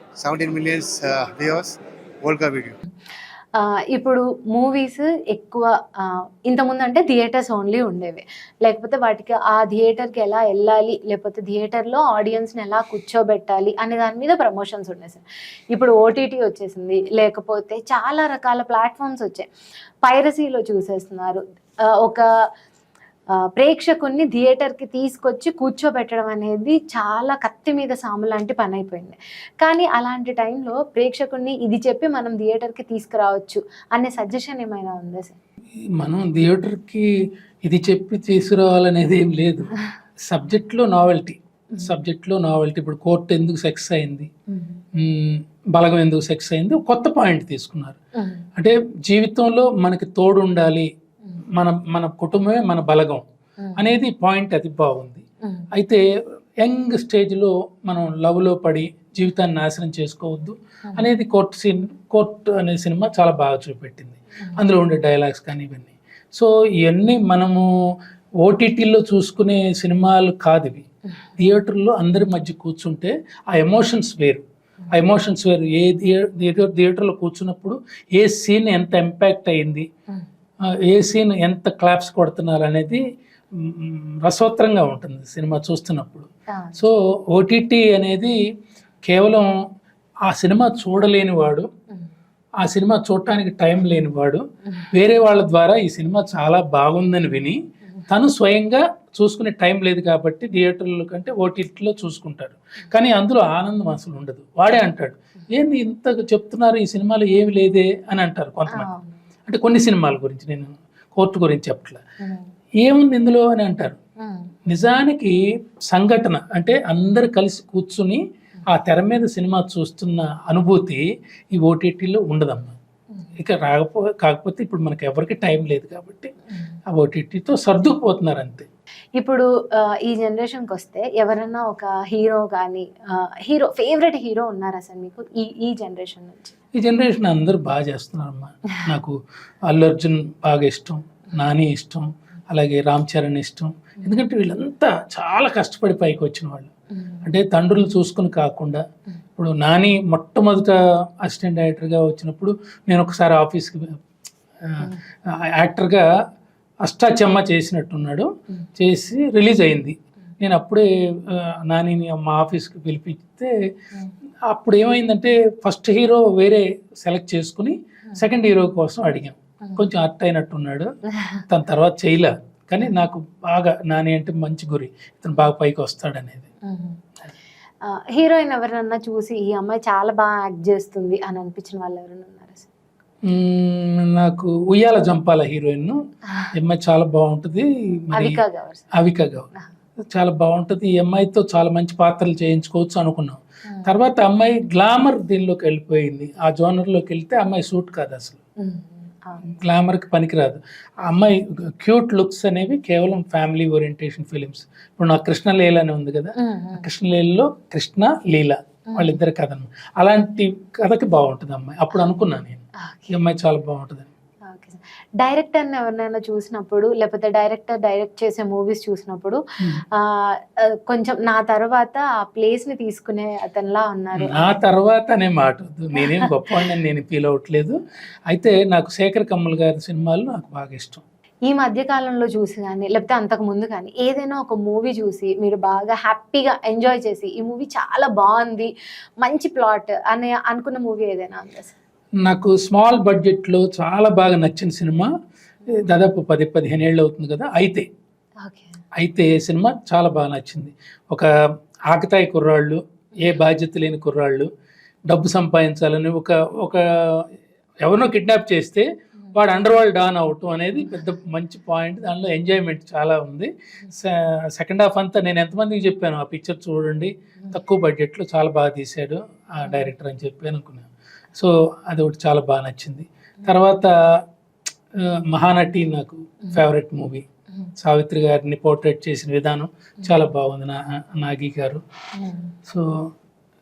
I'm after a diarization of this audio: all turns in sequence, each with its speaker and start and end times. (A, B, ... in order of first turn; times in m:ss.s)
0:00.2-0:02.8 A
0:03.6-0:19.5 B
0:20.0-0:21.4 B
0:22.0-0:22.2 B
0:23.6-0:35.4 B
0:36.0-0:37.1 C
0:37.6-0:39.7 C
0:40.3-0:44.3 C
0:44.5-0:44.8 B
0:45.0-0:48.0 C
0:48.2-0:48.5 B
0:48.6-0:50.9 C
0:51.6-0:53.2 C
0:53.6-0:53.9 B
0:53.8-0:55.2 C
0:55.7-0:56.0 C
0:56.6-1:07.6 C
1:08.4-1:10.8 C
1:11.4-1:19.9 C
1:20.8-1:23.0 C
1:23.6-1:28.4 C
1:26.5-1:26.9 B
1:29.1-1:29.5 C
1:30.3-1:31.7 C
1:32.6-1:48.9 C
1:48.7-1:49.2 B
1:49.5-1:52.0 C
1:52.8-1:54.0 C
1:54.2-1:54.5 B
1:54.7-1:55.4 C
1:55.9-2:02.8 C
2:03.4-2:06.3 C
2:06.9-2:08.7 C
2:09.2-2:16.6 B
2:16.8-2:26.7 C
2:27.0-2:27.3 B
2:27.2-2:28.8 C
2:29.4-2:33.9 C
2:34.6-2:36.0 C
2:36.8-2:43.5 C
2:44.5-2:50.9 C
2:49.6-2:49.9 B
2:51.2-2:51.4 B
2:51.5-2:56.5 C
2:56.7-2:57.0 B
2:57.9-3:02.7 B
3:03.2-3:06.0 C
3:06.5-3:08.4 C
3:08.1-3:08.8 B
3:08.9-3:09.5 C
3:10.1-3:18.4 C
3:13.7-3:13.9 B
3:18.6-3:19.6 B
3:19.4-3:34.1 C
3:26.4-3:26.9 B
3:28.9-3:29.2 B
3:32.8-3:33.2 B
3:34.5-3:39.4 B
3:39.9-3:44.5 B
3:44.2-3:47.8 C
3:46.0-3:46.3 B
3:48.3-3:51.0 C
3:51.5-3:58.7 B
3:59.2-4:01.8 B
4:02.2-4:05.1 C
4:05.7-4:07.9 C
4:08.4-4:08.8 B
4:09.0-4:11.3 C
4:11.9-4:14.5 C
4:15.1-4:17.2 C
4:17.8-4:33.9 C
4:35.0-4:37.2 C
4:37.8-4:41.8 C
4:40.0-4:40.3 B
4:42.2-4:42.6 B